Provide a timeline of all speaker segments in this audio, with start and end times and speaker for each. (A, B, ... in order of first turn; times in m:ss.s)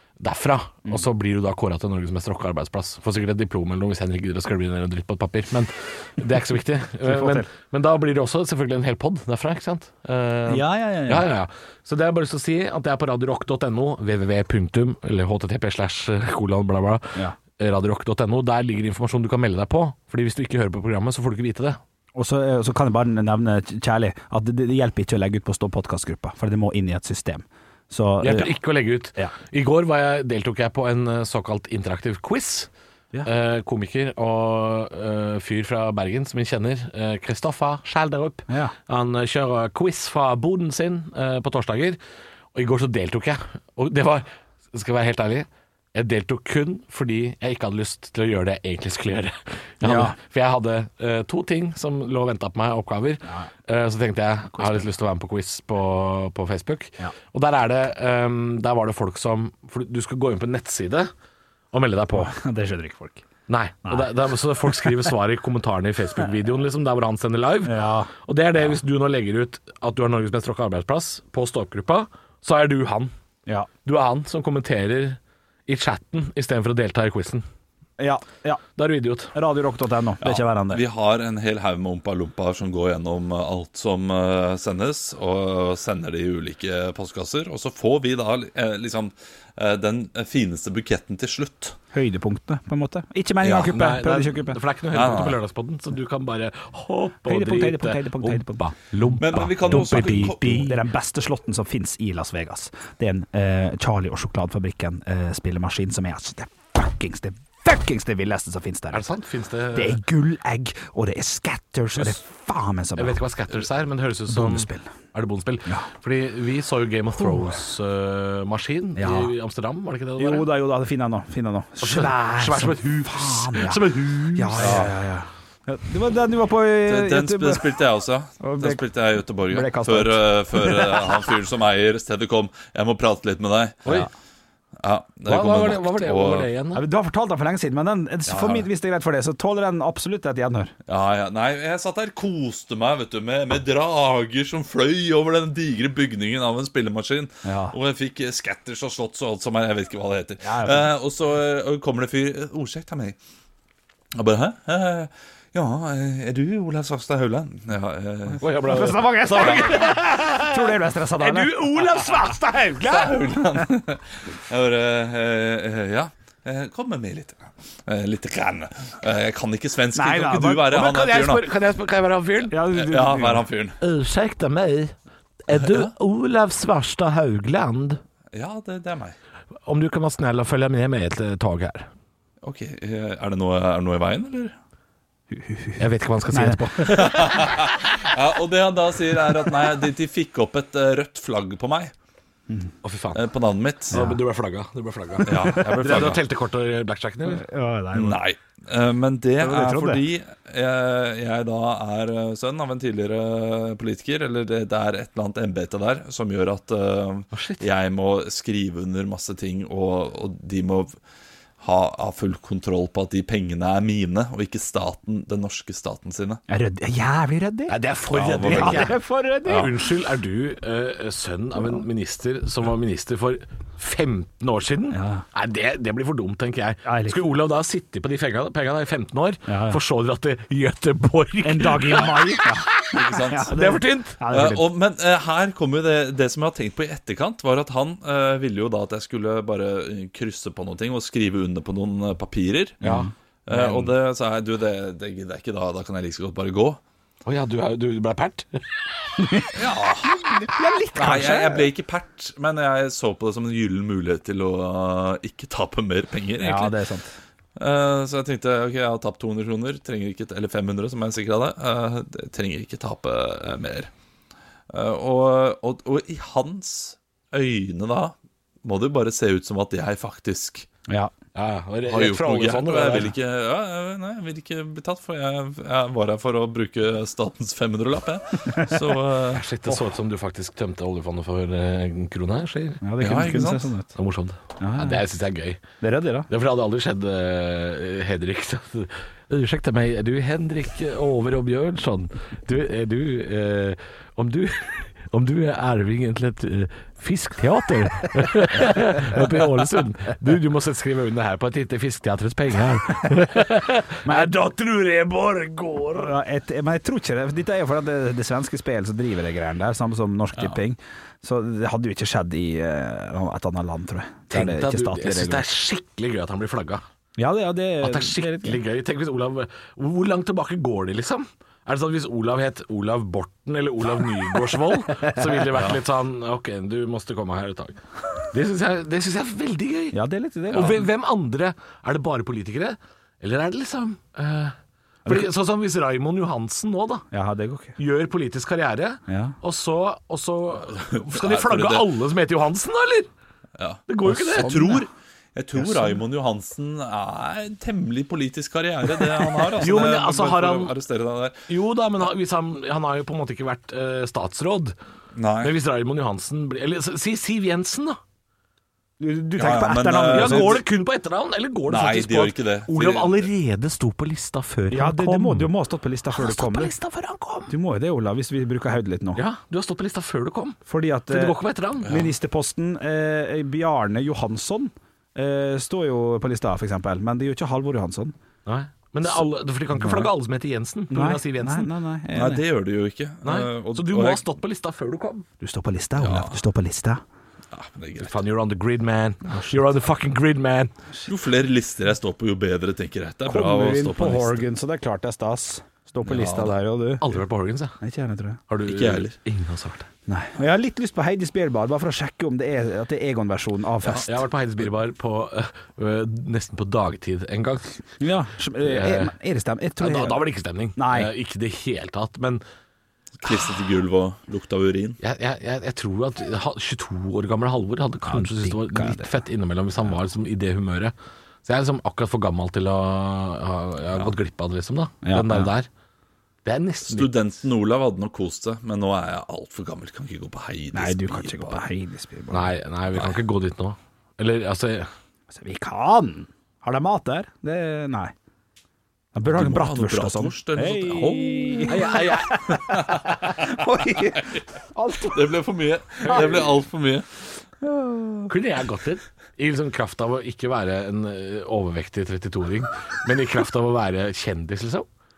0:00.2-0:21.8 A
0:07.0-0:07.5 B
0:10.5-0:11.3 B
0:22.2-0:28.5 B
0:28.2-0:32.7 A
0:33.2-0:42.0 A
0:38.5-0:38.7 B
0:42.5-1:01.1 A
0:49.8-0:50.2 B
0:54.5-0:54.8 B
1:01.7-1:02.3 A
1:02.1-1:03.3 B
1:03.5-1:13.1 A
1:03.8-1:04.1 B
1:04.7-1:05.0 B
1:07.6-1:08.1 B
1:13.8-1:17.4 A
1:18.0-1:18.6 B
1:18.8-1:19.4 A
1:19.3-1:20.8 B
1:20.2-1:31.8 C
1:31.9-1:34.6 B
1:33.4-1:40.8 A
1:34.9-1:35.4 C
1:37.2-1:38.7 B
1:39.2-1:40.7 C
1:39.7-1:49.0 B
1:48.9-1:50.0 A
1:49.8-1:53.2 B
1:53.0-2:00.5 A
1:54.3-1:54.9 B
1:57.2-1:57.5 B
1:59.0-1:59.3 B
2:00.2-2:07.7 B
2:01.8-2:04.9 A
2:06.9-2:14.0 C
2:08.4-2:08.8 B
2:09.5-2:11.3 B
2:14.8-2:16.5 C
2:15.3-2:16.8 A
2:16.8-2:20.7 B
2:18.3-2:18.7 C
2:20.9-2:33.2 C
2:27.4-2:27.8 B
2:30.4-2:30.9 B
2:34.2-2:38.5 C
2:38.4-2:43.3 A
2:38.7-2:41.9 B
2:39.2-2:39.9 C
2:42.8-2:51.5 C
2:50.0-2:50.8 B
2:50.7-2:52.6 A
2:52.5-2:53.5 B
2:52.6-2:53.8 C
2:53.8-2:55.0 A
2:55.5-2:58.0 A
2:55.6-2:55.9 C
2:58.3-2:59.2 C
2:59.7-3:01.9 A
3:02.4-3:04.5 C
3:05.3-3:07.2 B
3:05.8-3:07.6 A
3:06.9-3:11.9 C
3:12.8-3:13.2 A
3:13.2-3:14.1 C
3:13.9-3:17.4 A
3:15.2-3:16.2 B
3:15.2-3:16.2 C
3:17.3-3:18.2 B
3:17.9-3:31.0 C
3:19.4-3:20.0 B
3:27.3-3:27.7 A
3:31.6-3:36.4 C
3:36.5-3:37.8 B
3:37.7-3:54.2 A
3:38.1-3:38.9 C
3:38.4-3:39.8 B
3:44.9-3:45.2 B
3:46.8-3:47.2 B
3:49.5-3:49.8 B
3:51.4-3:54.7 B
3:52.9-3:53.6 C
3:54.3-4:02.9 C
4:02.8-4:03.9 B
4:03.5-4:06.8 C
4:07.2-4:09.4 A
4:09.2-4:09.5 B
4:09.5-4:10.2 C
4:10.0-4:11.7 B
4:11.0-4:16.8 C
4:16.4-4:17.1 B
4:17.6-4:23.9 C
4:24.7-4:30.7 C
4:31.3-4:33.1 A
4:31.9-4:39.4 C
4:39.3-4:42.8 A
4:42.8-4:44.0 B
4:43.0-4:43.7 C
4:44.0-4:45.6 A
4:44.6-4:45.0 B
4:45.8-4:46.3 B
4:46.3-5:06.2 A
5:04.0-5:04.3 B
5:06.0-5:15.5 B
5:14.3-5:16.8 A
5:17.2-5:18.6 B
5:17.8-5:30.0 A
5:25.5-5:25.8 C
5:29.9-5:30.8 B
5:30.5-5:34.6 A
5:35.1-5:37.0 A
5:37.1-5:37.8 B
5:37.8-5:43.1 A
5:39.1-5:39.4 B
5:40.9-5:41.9 C
5:43.6-5:51.5 C
5:43.9-5:44.7 A
5:44.1-5:44.8 B
5:45.6-5:46.0 B
5:49.6-5:50.8 A
5:51.5-5:54.8 A
5:55.2-5:55.5 C
5:55.4-5:58.0 A
5:59.0-6:00.6 B
5:59.4-6:00.6 C
6:00.1-6:05.5 A
6:01.7-6:03.3 C
6:04.7-6:06.7 B
6:06.1-6:07.5 A
6:07.5-6:09.2 B
6:09.2-6:12.0 A
6:10.7-6:18.1 B
6:18.5-6:21.7 A
6:19.8-6:20.1 B
6:20.9-6:22.4 B
6:22.1-6:24.2 C
6:23.2-6:25.3 A
6:25.4-6:27.0 B
6:26.0-6:26.4 C
6:27.5-6:28.2 C
6:28.0-6:30.7 A
6:29.3-6:29.6 B
6:31.0-6:34.4 C
6:33.3-6:37.0 B
6:36.0-6:36.6 C
6:37.0-6:37.8 A
6:37.8-6:38.4 B
6:38.5-6:39.9 A
6:38.6-6:39.2 C
6:40.1-6:44.1 B
6:44.0-6:47.8 A
6:48.0-6:50.2 B
6:48.6-6:49.1 A
6:49.8-6:52.4 A
6:50.8-6:51.1 B
6:53.2-6:55.0 C
6:55.0-7:00.9 A
6:58.0-6:59.2 B
7:01.4-7:05.7 A
7:05.0-7:05.5 B
7:06.4-7:07.2 A
7:06.8-7:11.6 C
7:10.7-7:12.5 B
7:12.3-7:14.9 A
7:15.3-7:18.1 B
7:19.1-7:25.3 B
7:19.3-7:22.0 C
7:21.7-7:22.7 A
7:22.5-7:24.4 C
7:25.0-7:27.1 C
7:26.0-7:26.5 B
7:27.6-7:28.3 B
7:28.3-7:34.9 A